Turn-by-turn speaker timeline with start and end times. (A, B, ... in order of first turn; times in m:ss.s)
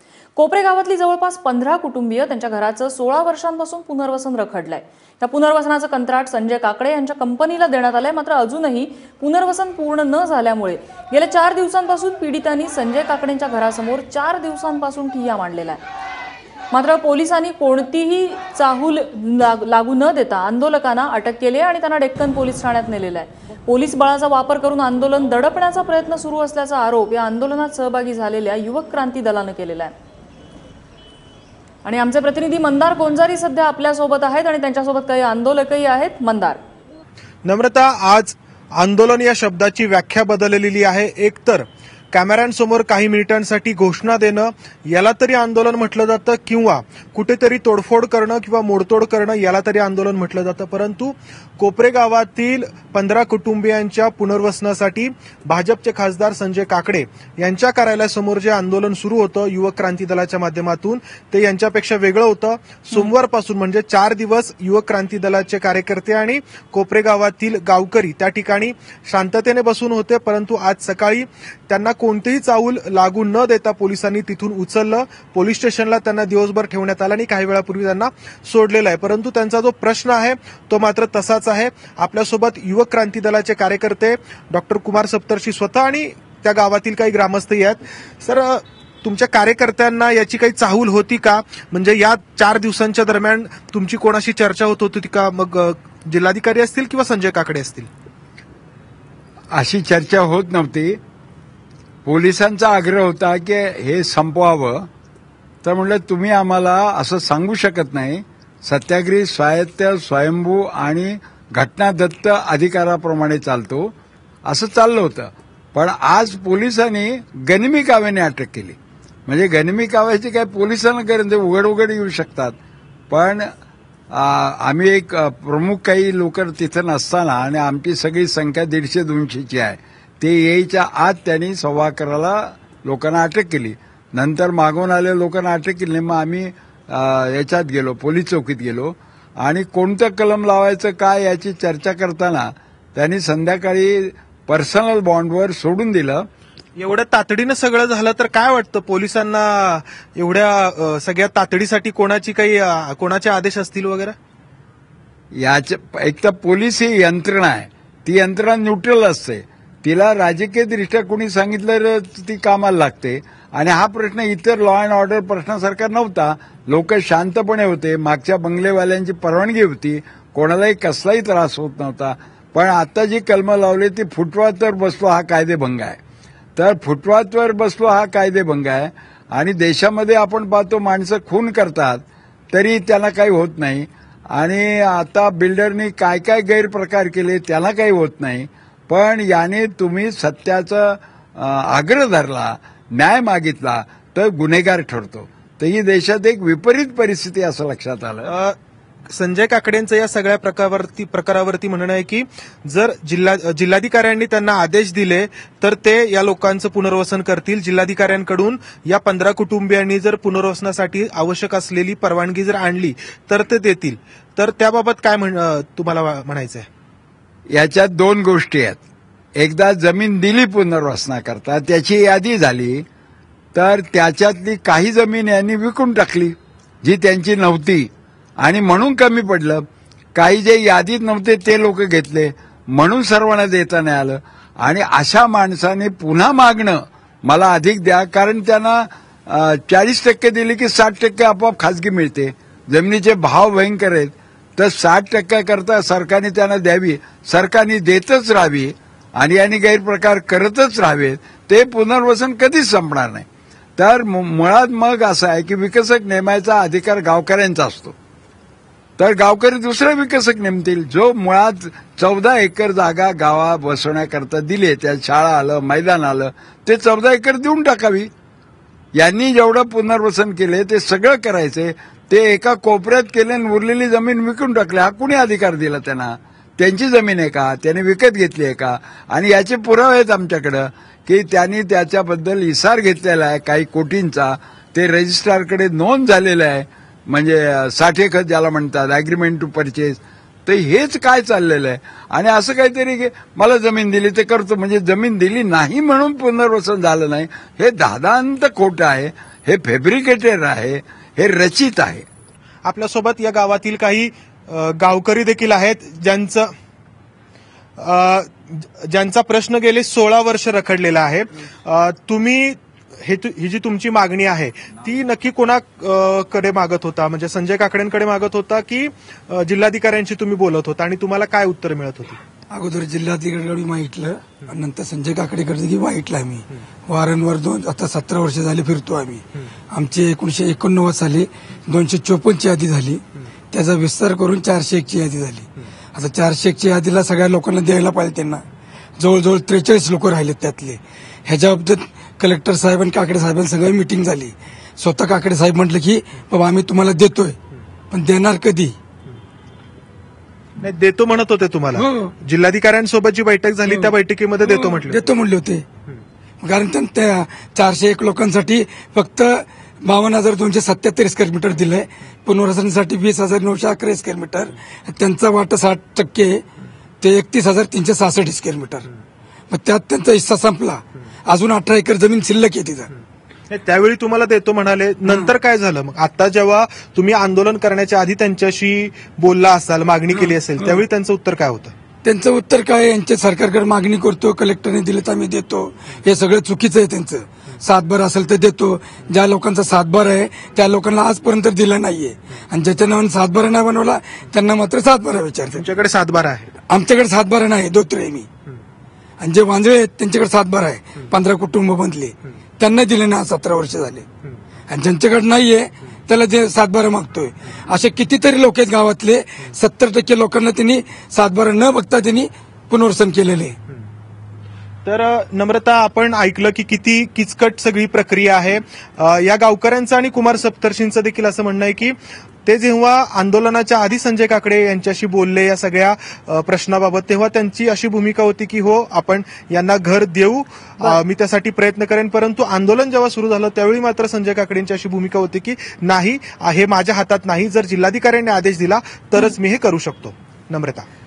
0:00.4-0:15.8 A
0:16.7-0:29.9 A
0:31.8-0:36.6 A
0:37.4-1:37.9 B
1:39.5-1:41.0 C
1:42.0-1:44.9 C
1:45.6-1:53.9 C
1:54.5-2:02.6 C
2:03.1-2:03.5 C
2:04.1-2:26.3 C
2:26.8-2:34.2 B
2:35.4-2:56.0 C
2:56.6-3:18.3 C
3:18.3-3:18.6 B
3:19.1-3:36.7 B
3:37.5-3:38.8 C
3:39.4-3:42.9 C
3:43.5-3:47.9 C
3:48.4-3:49.6 C
3:50.2-4:13.3 C
4:13.8-4:18.0 C
4:19.0-4:28.1 C
4:29.0-5:02.1 C
5:02.6-5:06.5 B
5:07.8-5:22.2 B
5:22.5-5:38.4 D
5:39.0-5:47.4 D
5:47.9-5:48.8 D
5:50.6-5:55.0 B
5:51.8-5:52.1 D
5:53.7-5:55.6 D
5:56.4-6:06.4 D
6:07.0-6:08.9 D
6:09.5-6:12.9 D
6:13.5-6:21.7 B
6:20.2-6:20.8 D
6:22.0-6:35.6 D
6:35.6-6:36.5 B
6:36.7-6:38.3 D
6:39.2-6:44.1 D
6:44.7-6:53.6 D
6:54.8-7:20.9 B